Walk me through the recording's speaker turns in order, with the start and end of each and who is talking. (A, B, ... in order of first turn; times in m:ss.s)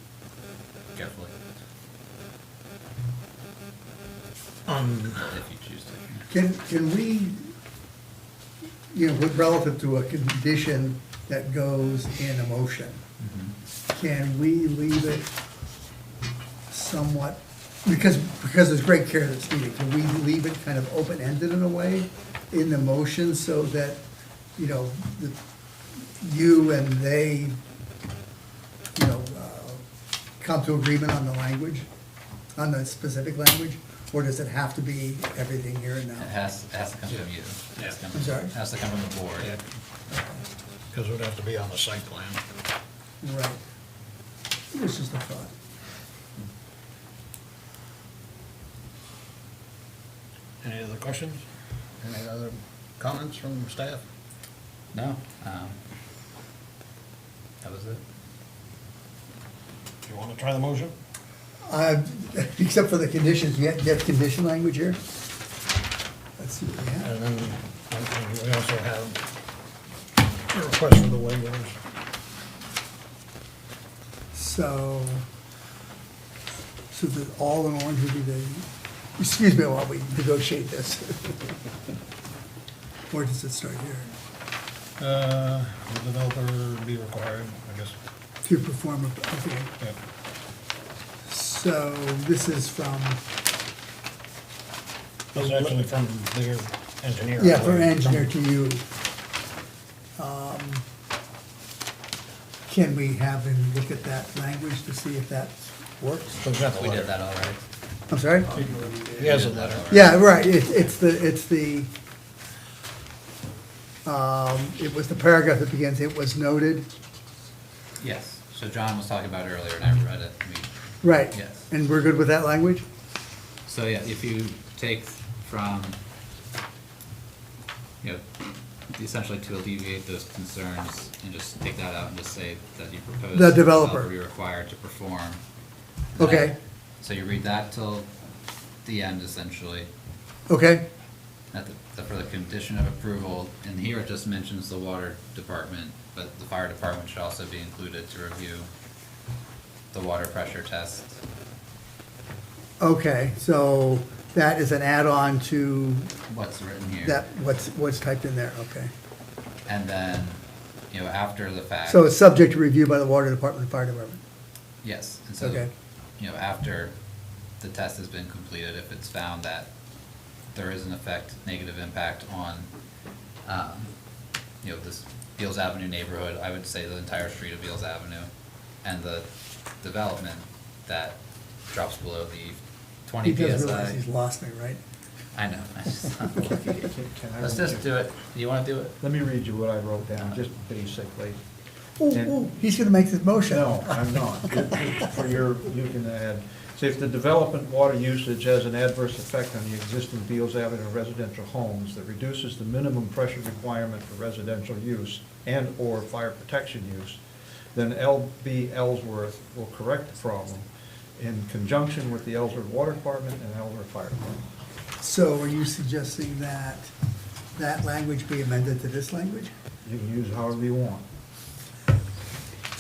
0:01.0-0:01.4 A
0:04.7-0:05.2 B
0:05.1-0:06.3 A
0:06.3-0:07.4 C
0:08.9-0:13.0 C
0:13.2-0:13.6 A
0:13.9-0:15.3 C
0:16.7-0:24.0 C
0:24.6-0:25.4 C
0:26.2-0:27.6 C
0:29.0-0:29.8 C
0:30.4-0:31.9 C
0:32.6-0:36.3 C
0:36.2-0:39.5 A
0:38.1-0:38.5 C
0:40.1-0:40.4 C
0:40.9-0:42.4 B
0:43.2-0:43.6 C
0:44.7-0:45.5 C
0:50.6-0:51.4 B
0:52.0-0:54.0 B
0:54.9-0:55.8 A
0:57.6-0:58.0 A
1:00.0-1:00.9 B
1:01.7-1:05.0 C
1:06.4-1:07.1 C
1:07.0-1:09.2 B
1:10.5-1:11.8 B
1:14.3-1:15.2 C
1:16.9-1:18.6 C
1:19.2-1:21.6 C
1:23.1-1:24.1 C
1:25.0-1:28.0 B
1:28.4-1:29.7 C
1:31.3-1:33.2 C
1:35.4-1:38.3 B
1:35.4-1:35.7 C
1:37.4-1:38.8 C
1:40.2-1:40.8 C
1:42.7-1:46.4 C
1:46.4-1:47.1 B
1:46.7-1:47.6 A
1:48.1-1:48.5 C
1:48.5-1:50.0 B
1:49.2-1:50.9 A
1:49.9-1:51.9 C
1:54.0-1:56.9 C
1:58.0-2:00.7 A
2:01.0-2:02.8 C
2:01.3-2:01.7 A
2:03.7-2:06.0 A
2:08.0-2:08.3 A
2:08.9-2:15.4 A
2:13.3-2:14.1 C
2:16.2-2:16.6 C
2:16.2-2:18.1 A
2:18.8-2:19.9 A
2:20.5-2:20.8 C
2:21.5-2:28.7 A
2:29.9-2:31.2 A
2:32.8-2:36.1 C
2:36.3-2:37.2 A
2:37.0-2:38.9 C
2:39.7-2:42.1 A
2:41.9-2:44.2 C
2:44.8-2:45.7 A
2:45.4-2:45.7 C
2:46.2-2:46.9 A
2:47.6-2:49.7 A
2:50.5-2:52.7 A
2:53.4-2:54.0 A
2:54.6-2:58.3 A
2:58.8-2:59.3 A
2:59.8-3:04.0 A
3:03.2-3:04.8 C
3:05.4-3:06.7 A
3:06.4-3:08.0 D
3:07.4-3:09.0 A
3:09.0-3:11.4 D
3:12.0-3:15.0 C
3:12.1-3:12.4 D
3:13.5-3:27.2 D
3:27.8-3:30.7 D
3:31.2-3:34.4 D
3:35.0-3:36.9 C
3:37.6-3:39.5 C
3:39.8-3:41.0 D